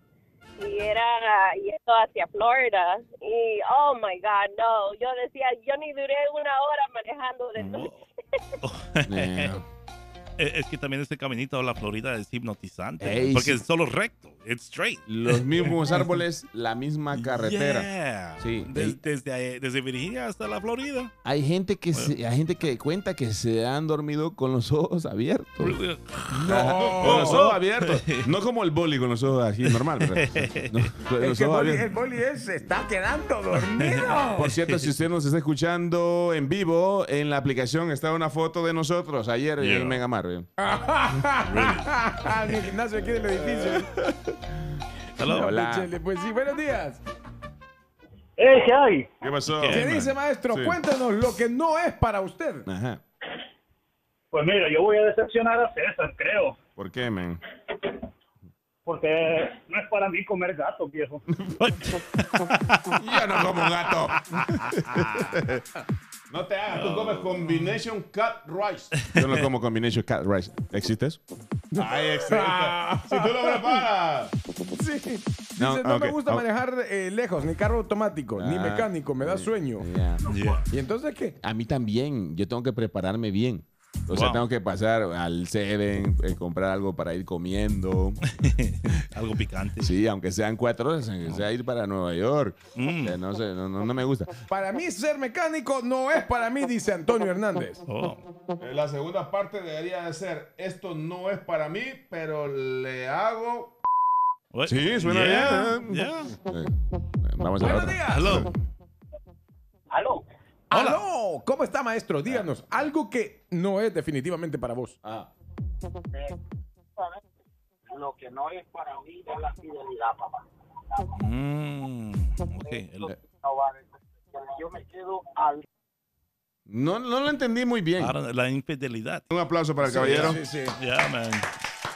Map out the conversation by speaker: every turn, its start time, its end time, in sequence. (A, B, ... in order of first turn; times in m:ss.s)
0:00.6-0:07.9 A
0:07.6-0:08.0 B
0:08.6-0:09.5 B
0:09.0-0:09.6 C
0:10.4-0:16.1 B
0:13.0-0:13.6 C
0:15.1-0:17.9 C
0:17.1-0:21.1 B
0:18.4-0:19.0 C
0:21.2-0:25.8 C
0:25.6-0:28.3 B
0:26.3-0:27.5 D
0:26.4-0:31.8 C
0:29.6-0:30.9 B
0:31.2-0:34.6 D
0:33.6-0:34.1 B
0:34.4-0:40.5 C
0:39.6-0:40.0 B
0:40.6-0:43.9 D
0:41.4-0:42.0 B
0:43.4-0:44.4 C
0:45.2-0:45.5 B
0:45.2-0:47.0 D
0:45.3-0:45.9 C
0:48.4-0:49.1 E
0:49.2-0:49.8 C
0:49.6-0:50.1 B
0:49.7-0:52.7 D
0:50.5-0:50.8 C
0:52.7-0:53.0 C
0:54.3-0:56.6 E
0:56.8-0:57.4 C
0:58.8-1:01.2 E
1:01.6-1:03.6 B
1:02.9-1:05.6 C
1:04.3-1:05.2 B
1:06.3-1:11.2 C
1:06.7-1:07.8 B
1:09.1-1:09.4 B
1:11.7-1:13.9 D
1:11.8-1:14.3 C
1:14.7-1:19.9 D
1:15.6-1:16.4 C
1:18.4-1:20.2 C
1:20.3-1:20.6 B
1:20.7-1:21.4 D
1:21.4-1:28.2 C
1:24.1-1:24.4 B
1:28.3-1:29.9 B
1:29.8-1:34.4 C
1:32.8-1:33.2 B
1:34.5-1:37.8 D
1:37.9-1:38.2 B
1:38.6-1:43.8 C
1:44.5-1:46.3 B
1:44.6-1:48.5 C
1:47.6-1:48.5 D
1:48.1-1:48.5 B
1:50.7-1:55.0 D
1:50.7-1:51.0 B
1:55.0-1:55.3 C
1:57.9-2:00.4 F
2:01.1-2:03.1 B
2:02.7-2:05.6 F
2:06.7-2:08.1 C
2:08.0-2:09.3 B
2:09.3-2:10.4 C
2:09.8-2:10.8 D
2:09.9-2:11.5 B